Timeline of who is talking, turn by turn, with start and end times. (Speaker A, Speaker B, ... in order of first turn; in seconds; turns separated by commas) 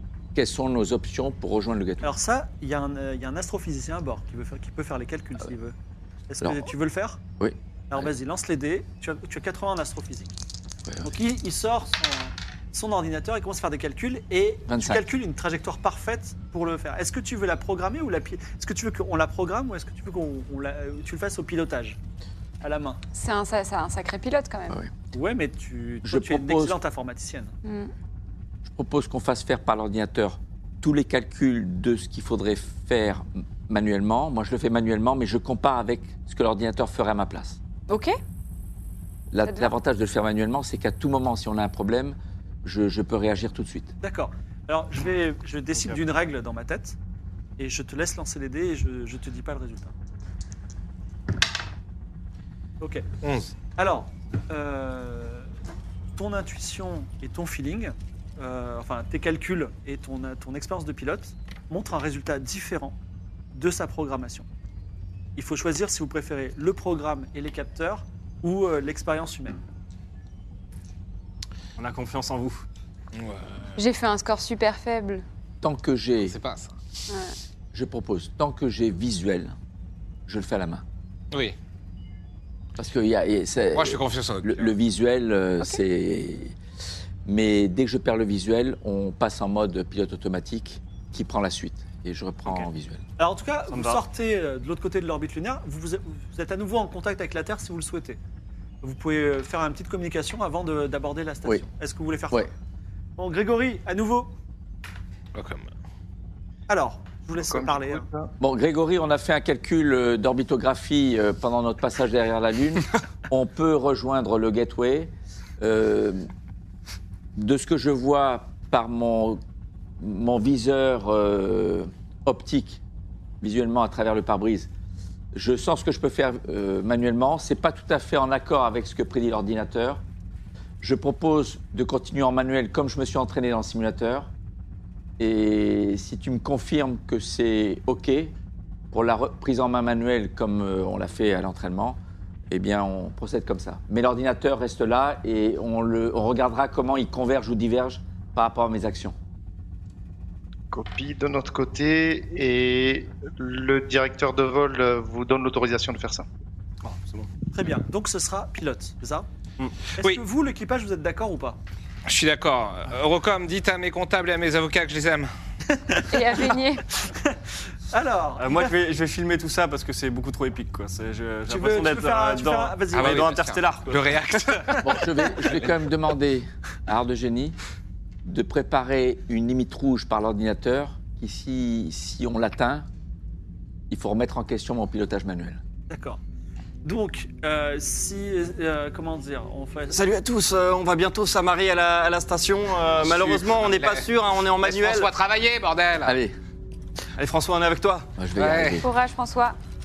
Speaker A: 0.3-2.2, Speaker B: 2.0-5.7, Speaker B: 6.3-7.2, Speaker A: 6.4-6.7, Speaker A: 7.4-8.1, Speaker B: 7.9-10.4, Speaker A: 10.9-11.1, Speaker B: 11.0-22.0, Speaker A: 14.7-15.1, Speaker B: 22.6-23.0, Speaker C: 23.1-24.8, Speaker B: 25.1-27.5, Speaker A: 26.0-26.8, Speaker C: 27.6-27.9, Speaker A: 28.6-37.6, Speaker C: 37.9-38.1, Speaker A: 39.3-43.9, Speaker C: 39.4-39.7, Speaker B: 44.0-47.0, Speaker B: 47.6-49.9, Speaker B: 52.8-53.0, Speaker D: 53.2-53.5, Speaker B: 53.8-55.5, Speaker B: 56.2-63.0, Speaker B: 63.5-64.5, Speaker B: 65.4-69.6, Speaker E: 71.8-72.6, Speaker D: 73.1-73.8, Speaker C: 73.8-75.2, Speaker A: 75.6-76.4, Speaker D: 76.3-76.7, Speaker C: 77.1-77.3, Speaker A: 77.7-79.6, Speaker A: 80.3-80.8, Speaker A: 82.8-86.5, Speaker D: 83.7-84.7, Speaker A: 87.2-93.0, Speaker B: 93.2-98.2, Speaker E: 93.7-94.0, Speaker B: 98.8-102.5, Speaker B: 103.2-104.3, Speaker D: 105.3-105.7, Speaker B: 106.7-108.0, Speaker F: 107.4-108.3, Speaker A: 108.4-116.3, Speaker A: 117.4-119.4, Speaker A: 120.0-122.8, Speaker A: 123.4-124.7, Speaker A: 125.3-130.0, Speaker A: 130.8-134.3, Speaker A: 135.2-138.3, Speaker A: 138.9-149.2, Speaker F: 150.7-156.3, Speaker E: 156.8-157.3, Speaker B: 157.5-159.3, Speaker B: 159.9-161.6, Speaker D: 162.1-165.3, Speaker B: 165.7-166.4, Speaker C: 166.1-166.8, Speaker B: 167.1-167.4, Speaker B: 167.9-168.8, Speaker E: 168.4-174.8, Speaker B: 171.5-173.4, Speaker D: 172.9-174.9, Speaker A: 174.8-177.6, Speaker A: 178.2-182.9, Speaker A: 183.9-185.6, Speaker B: 185.9-186.2, Speaker B: 186.8-190.0, Speaker E: 189.9-195.1, Speaker D: 193.0-194.1, Speaker D: 194.6-196.1, Speaker A: 196.0-196.3, Speaker E: 197.2-198.1, Speaker A: 198.2-198.9, Speaker D: 198.4-198.8, Speaker C: 198.8-199.6